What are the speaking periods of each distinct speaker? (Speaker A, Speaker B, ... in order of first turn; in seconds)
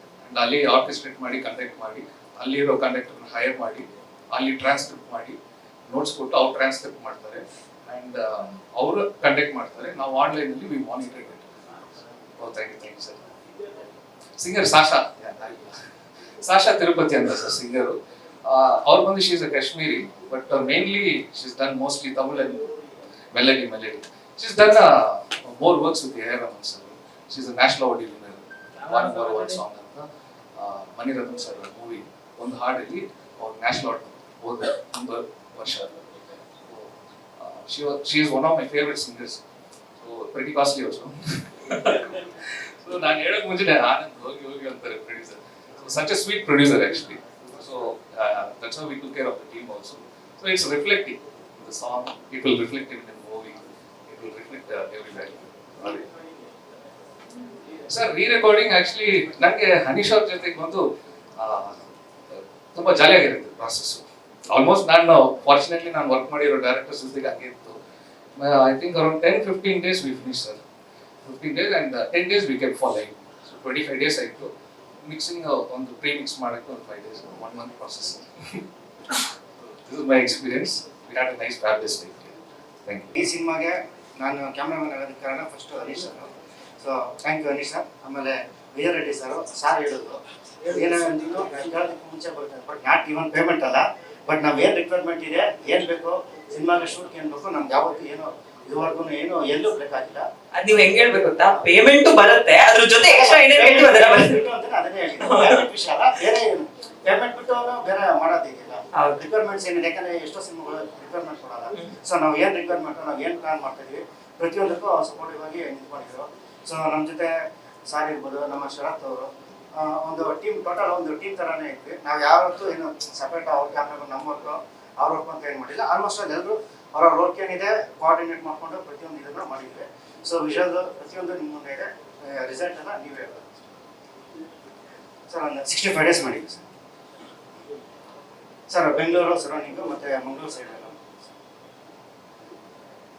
Speaker A: 0.2-11.5, 12.4-13.2, 14.4-15.8, 16.4-22.7, 23.3-35.9, 36.7-39.4, 40.0-56.1, 57.9-60.8, 61.4-61.8, 62.3-67.8, 68.4-70.6, 71.2-74.5, 75.0-78.6, 79.6-83.1
Speaker B: 83.2-86.3, 86.8-100.3, 101.4-101.7, 103.0-117.3, 117.9-133.6, 135.3-136.6, 138.7-141.3
Speaker C: 100.5-104.5, 105.2-105.7, 108.9-109.2